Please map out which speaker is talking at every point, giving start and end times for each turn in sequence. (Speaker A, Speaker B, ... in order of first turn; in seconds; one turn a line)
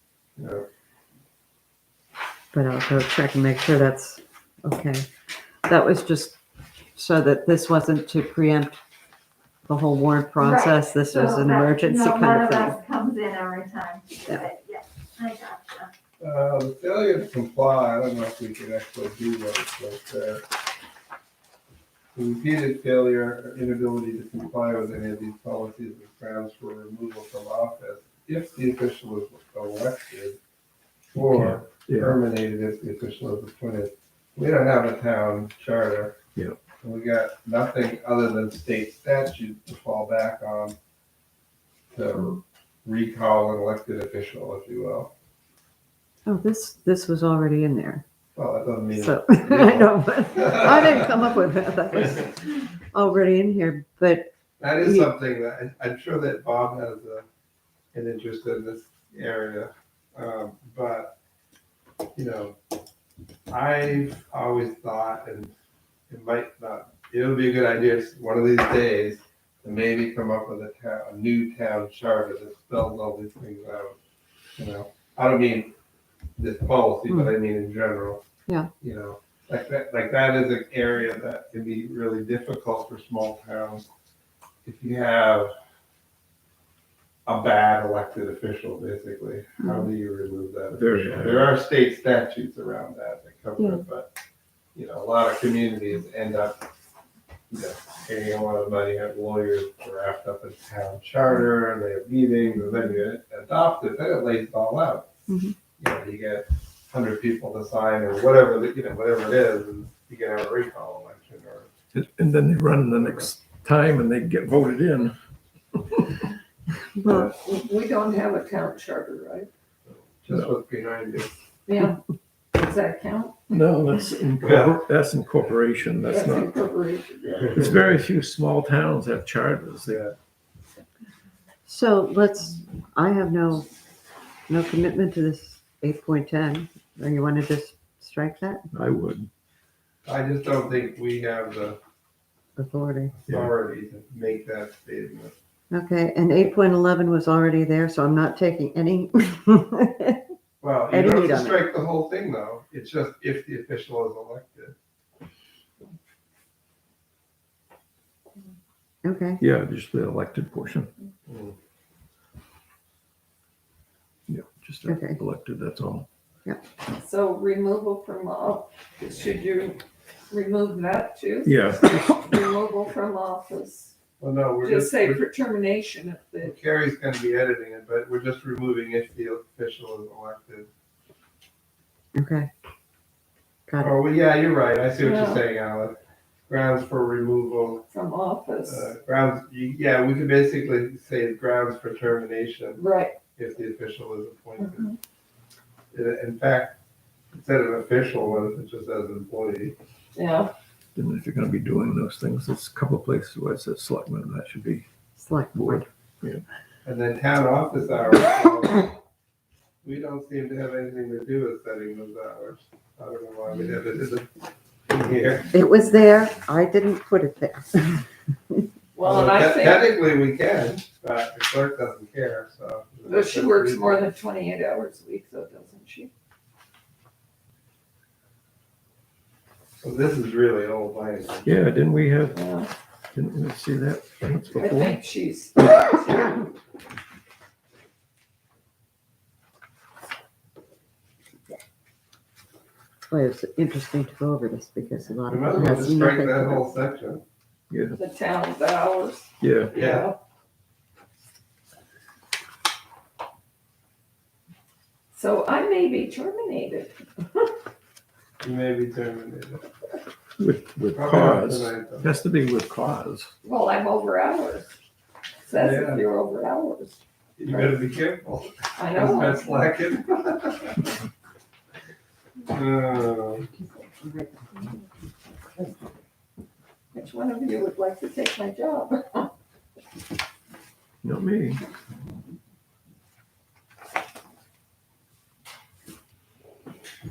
Speaker A: 0.4-0.7
Speaker B: 2.5-5.1
Speaker B: 5.7-6.4
Speaker B: 6.9-8.8
Speaker B: 9.7-12.8
Speaker C: 10.4-15.9
Speaker A: 16.2-20.4
Speaker A: 22.1-30.4
Speaker A: 31.1-36.1
Speaker D: 31.1-32.2
Speaker A: 36.8-40.8
Speaker A: 41.9-45.1
Speaker B: 46.2-48.0
Speaker A: 48.3-51.1
Speaker B: 48.9-55.1
Speaker A: 54.6-57.2
Speaker A: 57.9-61.1
Speaker A: 62.1-62.5
Speaker A: 63.5-65.5
Speaker A: 66.1-74.0
Speaker A: 74.6-75.7
Speaker A: 76.4-78.2
Speaker A: 78.8-83.9
Speaker A: 84.6-85.5
Speaker A: 87.2-94.1
Speaker B: 89.6-89.9
Speaker D: 90.7-91.5
Speaker A: 94.7-96.6
Speaker A: 97.5-105.1
Speaker B: 105.3-105.5
Speaker A: 105.8-111.7
Speaker D: 111.9-115.1
Speaker A: 112.9-113.3
Speaker D: 115.7-116.1
Speaker B: 117.0-117.3
Speaker A: 117.0-117.3
Speaker E: 117.4-119.5
Speaker A: 119.9-121.3
Speaker E: 121.7-122.0
Speaker E: 122.5-123.3
Speaker D: 123.5-126.6
Speaker A: 124.4-124.8
Speaker E: 126.0-127.6
Speaker A: 127.4-127.7
Speaker D: 127.5-130.0
Speaker A: 129.8-130.2
Speaker B: 131.7-133.7
Speaker B: 134.5-138.6
Speaker D: 138.7-139.3
Speaker A: 140.0-141.8
Speaker B: 142.6-143.1
Speaker A: 143.1-145.3
Speaker B: 145.7-150.2
Speaker A: 150.6-154.7
Speaker B: 150.9-151.7
Speaker B: 159.0-159.4
Speaker D: 159.4-160.9
Speaker A: 161.3-161.6
Speaker D: 164.3-166.1
Speaker B: 164.8-165.2
Speaker E: 167.0-173.9
Speaker D: 171.4-172.3
Speaker A: 174.2-175.2
Speaker E: 174.6-176.5
Speaker A: 176.4-180.7
Speaker B: 182.1-182.5
Speaker B: 183.7-183.9
Speaker A: 183.8-186.0
Speaker E: 185.0-185.4
Speaker A: 186.5-187.8
Speaker E: 187.9-188.9
Speaker A: 188.7-192.8
Speaker E: 192.8-193.2
Speaker A: 193.4-194.9
Speaker E: 194.6-195.0
Speaker A: 195.9-196.8
Speaker A: 197.3-199.8
Speaker E: 200.1-200.5
Speaker D: 200.9-204.8
Speaker B: 205.2-205.8
Speaker D: 205.5-206.4
Speaker A: 206.8-208.9
Speaker A: 209.8-214.3
Speaker A: 214.9-215.5
Speaker B: 215.5-218.6
Speaker E: 218.9-219.9
Speaker A: 219.0-224.1
Speaker E: 223.1-226.1
Speaker A: 229.8-231.7
Speaker D: 231.4-232.4
Speaker E: 232.3-232.7
Speaker D: 233.1-235.0
Speaker E: 234.6-236.5
Speaker B: 243.1-246.7
Speaker A: 245.3-247.2
Speaker D: 247.7-248.0
Speaker E: 247.9-250.2
Speaker D: 249.4-249.7
Speaker A: 249.7-250.1
Speaker E: 255.1-257.5
Speaker A: 258.4-259.6
Speaker D: 260.4-263.3
Speaker A: 260.9-262.1
Speaker E: 263.4-264.7
Speaker E: 265.4-267.8
Speaker A: 265.6-266.0
Speaker A: 267.4-270.9
Speaker E: 268.8-269.7
Speaker A: 272.5-273.5
Speaker B: 274.0-274.3
Speaker E: 276.9-279.3
Speaker D: 281.0-281.6